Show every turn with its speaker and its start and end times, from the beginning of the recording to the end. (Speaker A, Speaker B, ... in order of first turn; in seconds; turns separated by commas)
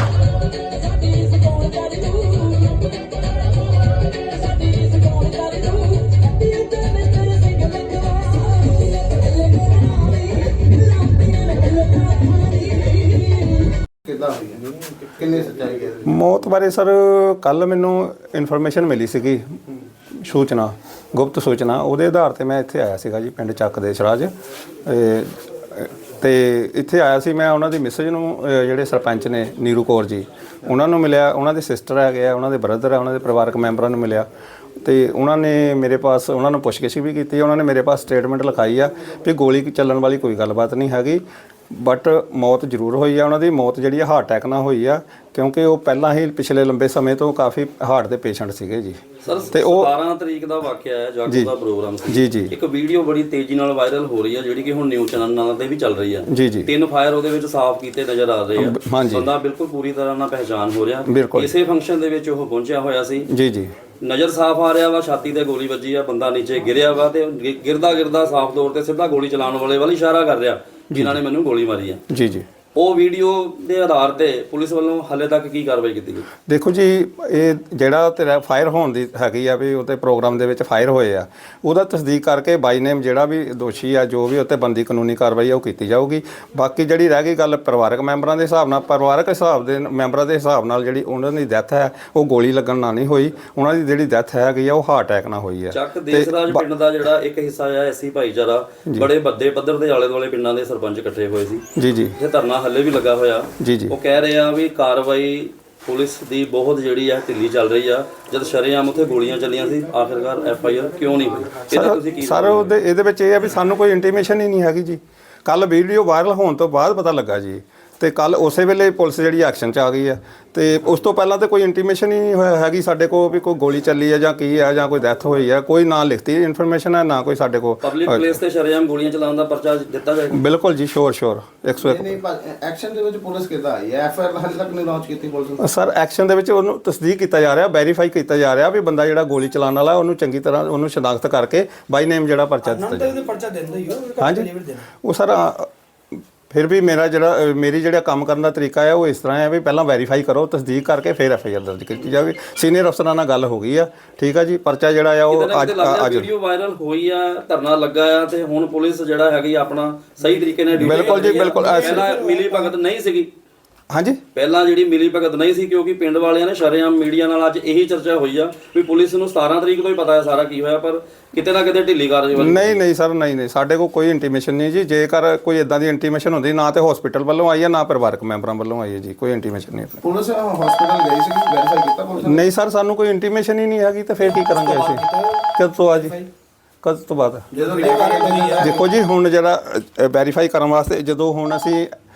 Speaker A: 0.4-13.6, Speaker B: 14.0-16.1, Speaker C: 16.1-19.4, Speaker C: 20.1-24.3, Speaker C: 24.9-34.3, Speaker C: 34.8-49.9, Speaker D: 49.2-63.3, Speaker C: 52.1-52.5, Speaker C: 56.3-56.7, Speaker C: 58.5-59.3, Speaker C: 61.0-61.5, Speaker C: 63.3-63.7, Speaker D: 64.0-72.0, Speaker C: 70.9-71.2, Speaker C: 72.1-72.5, Speaker D: 72.7-76.3, Speaker C: 76.5-96.6, Speaker D: 95.7-101.6, Speaker C: 101.8-102.2, Speaker D: 102.2-112.7, Speaker C: 103.6-103.9, Speaker C: 111.7-128.4, Speaker D: 127.8-130.4, Speaker C: 130.3-132.2, Speaker B: 131.8-135.7, Speaker C: 135.6-143.2, Speaker A: 142.7-144.8, Speaker C: 144.2-156.3, Speaker D: 155.3-163.3, Speaker C: 160.7-162.1, Speaker A: 160.9-162.6, Speaker C: 163.9-164.2, Speaker D: 164.3-172.8, Speaker C: 172.3-180.0, Speaker B: 180.0-182.5, Speaker C: 182.2-186.3, Speaker A: 184.3-185.4, Speaker C: 186.8-187.5, Speaker B: 187.5-188.8, Speaker A: 187.8-188.6, Speaker C: 188.6-191.9